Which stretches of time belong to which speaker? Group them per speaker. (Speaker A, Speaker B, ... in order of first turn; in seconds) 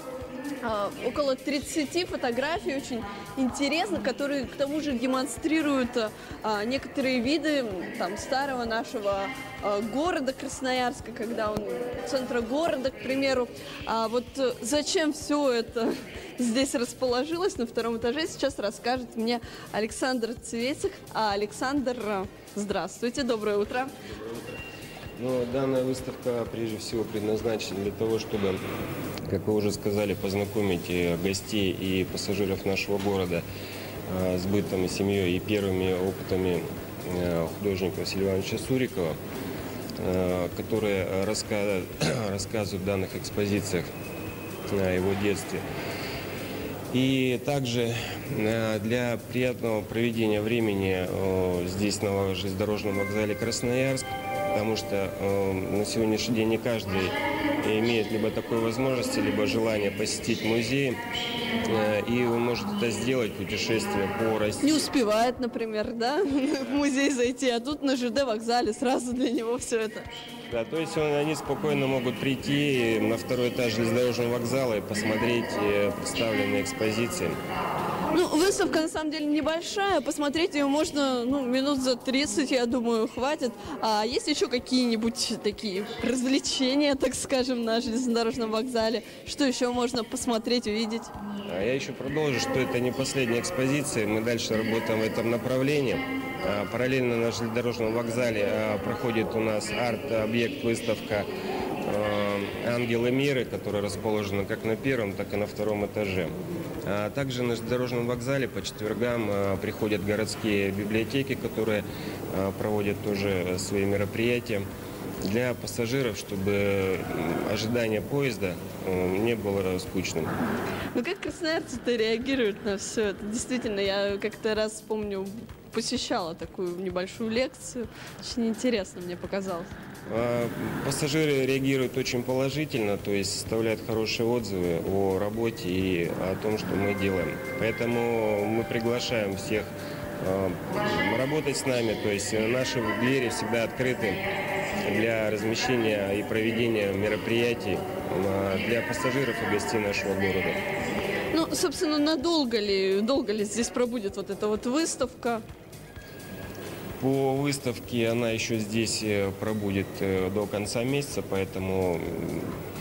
Speaker A: 0.6-23.9, 64.6-70.1, 78.1-91.1, 120.9-129.7, 151.3-155.4
Speaker B: 25.2-28.6, 29.3-33.4, 34.1-39.2, 40.0-43.9, 44.7-45.6, 46.9-61.0, 61.6-64.9, 70.5-77.4, 91.5-101.3, 101.8-106.3, 106.8-114.7, 115.2-120.3, 130.1-144.2, 144.8-150.6, 157.0-162.6